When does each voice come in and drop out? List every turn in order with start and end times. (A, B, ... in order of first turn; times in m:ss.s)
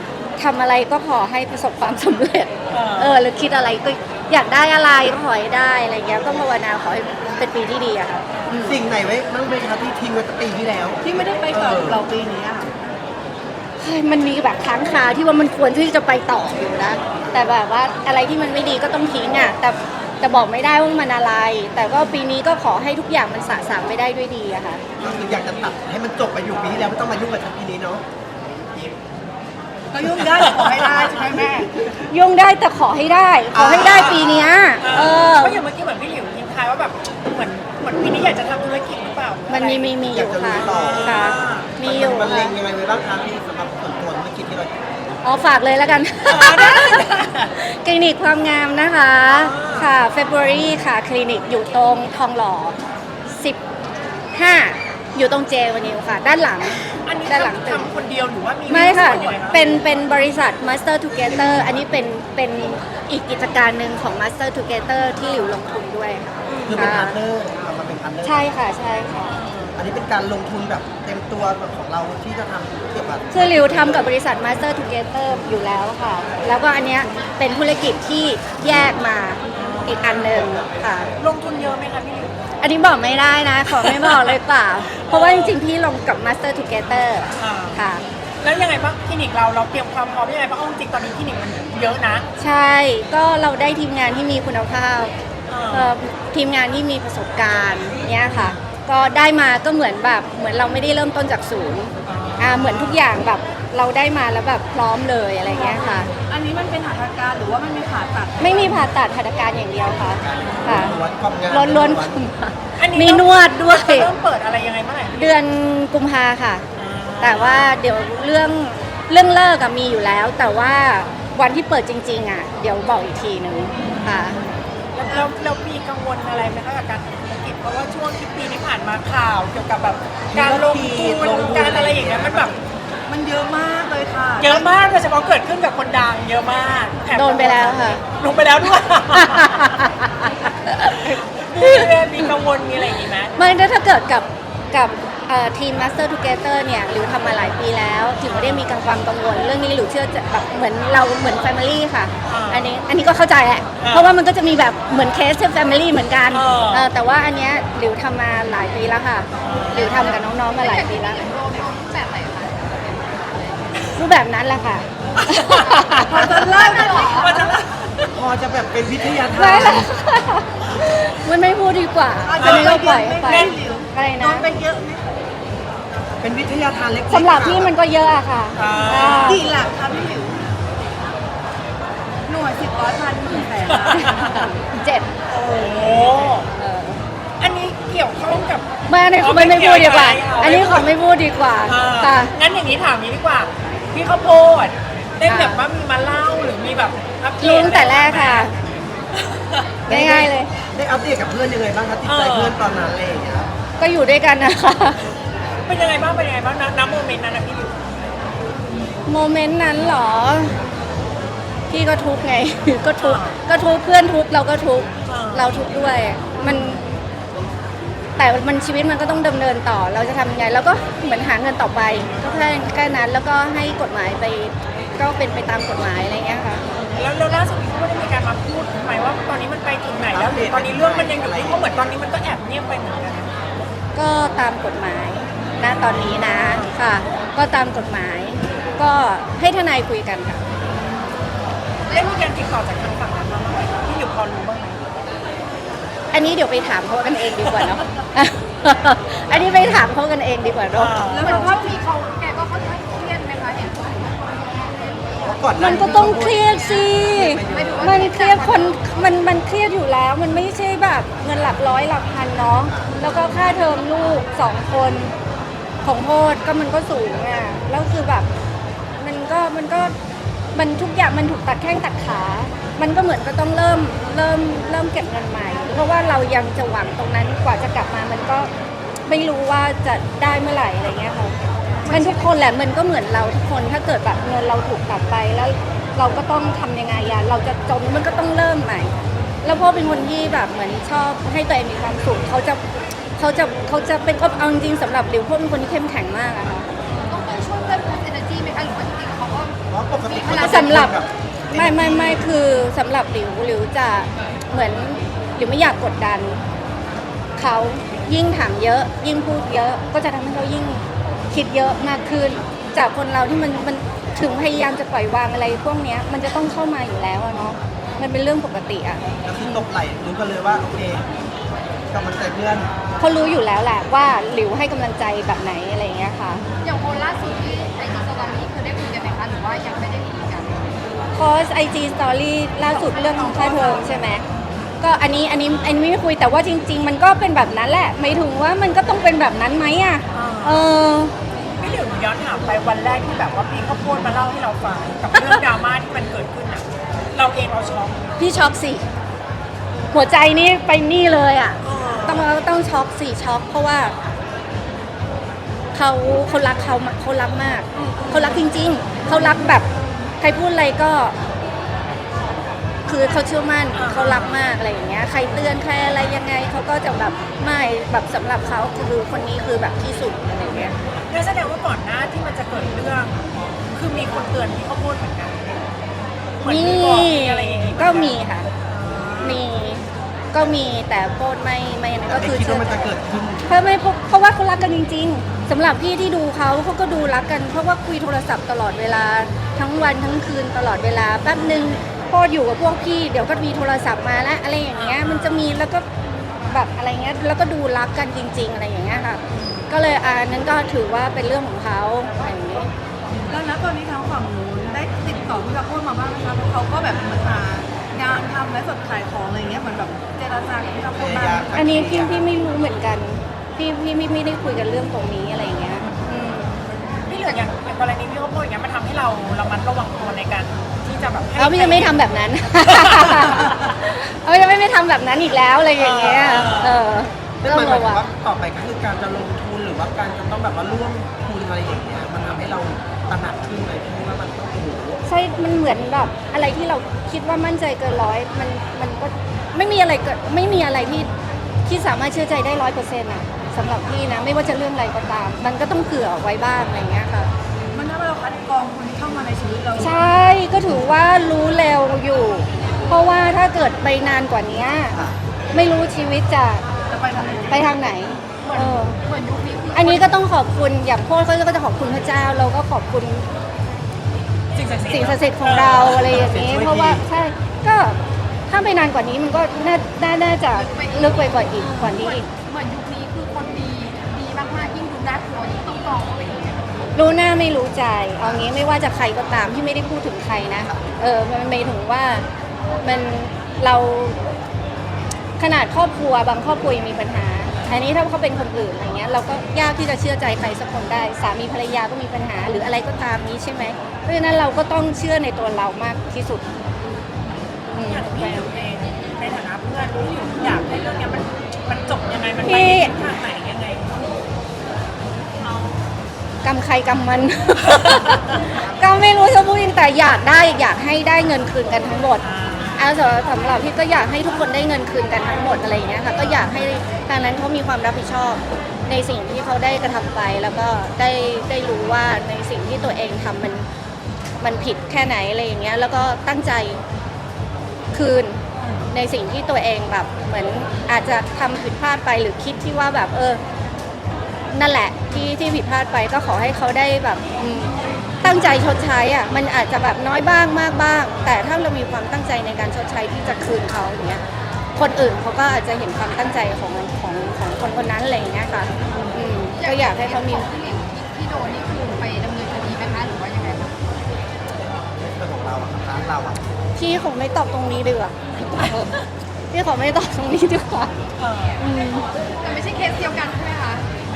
0:00.4-0:08.8 A
0:02.7-0:03.2 B
0:08.6-0:12.0 C
0:11.0-0:12.7 D
0:13.8-0:24.9 A
0:25.0-0:28.0 C
0:29.9-0:31.9 D
0:32.1-0:35.6 A
0:33.5-0:34.5 C
0:34.0-0:34.2 B
0:34.8-0:39.9 B
0:39.5-0:42.6 A
0:40.1-0:41.2 C
0:40.6-0:41.7 B
0:41.8-0:44.8 C
0:45.2-0:52.8 A
0:46.2-0:47.5 B
0:49.3-0:49.9 B
0:53.3-0:53.6 A
0:54.3-0:57.9 A
0:57.0-0:59.7 B
0:58.7-1:07.2 A
1:06.5-1:06.9 B
1:06.7-1:08.4 C
1:08.2-1:09.3 A
1:09.3-1:09.8 B
1:09.8-1:14.1 C
1:13.3-1:21.1 A
1:19.5-1:20.5 B
1:21.2-1:22.3 B
1:22.6-1:28.0 A
1:23.7-1:24.4 B
1:24.9-1:25.6 B
1:27.4-1:27.8 B
1:28.4-1:32.2 B
1:32.4-1:35.1 A
1:35.5-1:35.9 B
1:35.7-1:46.1 A
1:42.1-1:43.0 B
1:45.6-1:46.0 B
1:46.2-1:48.9 D
1:48.4-1:51.0 A
1:50.3-1:52.2 C
1:51.5-1:54.1 A
1:52.8-1:55.2 B
1:55.2-1:56.7 A
1:56.8-1:57.7 B
1:57.2-2:04.4 A
2:05.0-2:12.6 B
2:10.3-2:12.5 C
2:13.1-2:14.7 D
2:14.4-2:19.8 B
2:17.1-2:18.0 A
2:19.2-2:21.9 A
2:21.0-2:23.3 B
2:23.4-2:41.2 A
2:28.3-2:28.7 B
2:32.3-2:32.7 B
2:33.8-2:34.1 B
2:36.3-2:36.9 B
2:39.4-2:40.0 B
2:39.7-2:43.8 E
2:44.0-2:46.4 A
2:45.5-2:45.8 B
2:46.0-2:47.8 D
2:46.2-2:47.4 E
2:47.0-2:48.1 B
2:48.2-2:49.9 C
2:49.3-2:54.5 A
2:52.2-2:55.0 D
2:52.4-2:53.6 B
2:56.2-2:57.7 C
2:57.1-2:59.5 A
2:58.6-2:59.4 B
2:59.2-3:00.4 D
3:02.3-3:04.5 D
3:03.7-3:04.2 B
3:03.9-3:05.1 A
3:05.3-3:06.5 B
3:06.5-3:07.0 A
3:07.4-3:08.6 B
3:08.9-3:12.3 A
3:09.2-3:10.9 B
3:11.7-3:18.5 B
3:15.3-3:15.6 A
3:17.4-3:18.5 A
3:19.2-3:19.6 B
3:19.9-3:20.5 A
3:19.9-3:23.5 C
3:22.0-3:22.6 B
3:23.8-3:25.0 A
3:25.7-3:27.8 B
3:29.1-3:30.6 A
3:31.7-3:36.8 A
3:33.0-3:33.4 B
3:35.1-3:35.5 B
3:36.4-3:36.8 B
3:38.2-3:46.6 A
3:42.2-3:42.4 B
3:46.7-3:53.4 B
3:50.1-3:51.9 C
3:54.0-4:00.4 A
3:55.7-3:56.7 B
4:01.9-4:04.8 B
4:06.1-4:11.5 A
4:10.7-4:11.5 B
4:11.2-4:18.8 E
4:11.3-4:11.6 D
4:15.2-4:16.4 C
4:15.6-4:25.1 A
4:17.1-4:17.9 C
4:25.8-4:28.3 A
4:29.0-4:29.9 A
4:30.6-4:38.5 A
4:39.1-4:41.3 A
4:41.9-4:42.2 B
4:41.9-4:48.9 A
4:49.4-4:52.6 A
4:53.2-4:56.7 A
4:56.9-5:01.0 E
4:59.7-5:02.3 C
5:00.3-5:01.0 A
5:01.5-5:06.4 A
5:07.4-5:19.0 A
5:19.2-5:21.0 C
5:21.9-5:22.7 C
5:23.0-5:26.4 A
5:26.6-5:30.7 E
5:31.1-5:34.2 A
5:32.6-5:33.9 E
5:34.8-5:41.1 A
5:40.1-5:40.7 B
5:41.6-5:48.1 B
5:48.2-5:48.8 A
5:49.9-5:54.0 A
5:51.6-5:52.3 B
5:55.7-5:59.7 A
5:57.8-5:58.4 B
6:00.2-6:01.2 A
6:02.9-6:10.8 A
6:03.7-6:04.4 B
6:11.1-6:13.2 B
6:13.7-6:15.6 B
6:16.4-6:19.4 B
6:16.4-6:18.5 A
6:19.2-6:22.9 A
6:22.1-6:23.6 C
6:23.5-6:35.8 A
6:34.7-6:35.6 B
6:36.5-6:42.7 A
6:39.3-6:39.7 B
6:43.3-6:52.0 D
6:51.0-6:52.2 C
6:51.5-6:56.6 A
6:57.1-7:02.0 B
7:01.4-7:08.0 A
7:02.6-7:03.5 B
7:05.8-7:06.8 B
7:07.4-7:15.0 C
7:15.1-7:21.1 A
7:21.7-7:27.3 A
7:27.7-7:30.2 D
7:29.8-7:35.0 A
7:35.5-7:36.6 A
7:36.9-7:37.7 D
7:37.5-7:39.0 A
7:38.4-7:40.1 E
7:39.7-7:43.3 A
7:44.5-7:46.3 B
7:44.9-7:48.0 A
7:46.1-7:47.0 C
7:48.5-7:52.3 A
7:50.5-7:56.7 E
7:57.0-8:02.2 A
7:58.2-7:58.5 C
8:00.6-8:01.0 C
8:02.8-8:04.2 A
8:05.4-8:16.4 A
8:17.7-8:18.5 A
8:17.8-8:24.1 B
8:22.4-8:22.9 A
8:25.4-8:25.7 B
8:26.4-8:32.2 A
8:27.7-8:28.4 B
8:32.2-8:32.9 B
8:32.8-8:43.6 A
8:36.2-8:36.5 B
8:44.4-8:46.8 A
8:47.9-8:53.4 A
8:54.5-9:04.2 A
9:04.8-9:10.5 A
9:09.5-9:13.8 E
9:15.0-9:16.4 C
9:16.8-9:18.9 A
9:18.6-9:18.8 B
9:19.5-9:20.9 A
9:21.2-9:21.6 B
9:21.6-9:22.1 A
9:22.4-9:23.9 E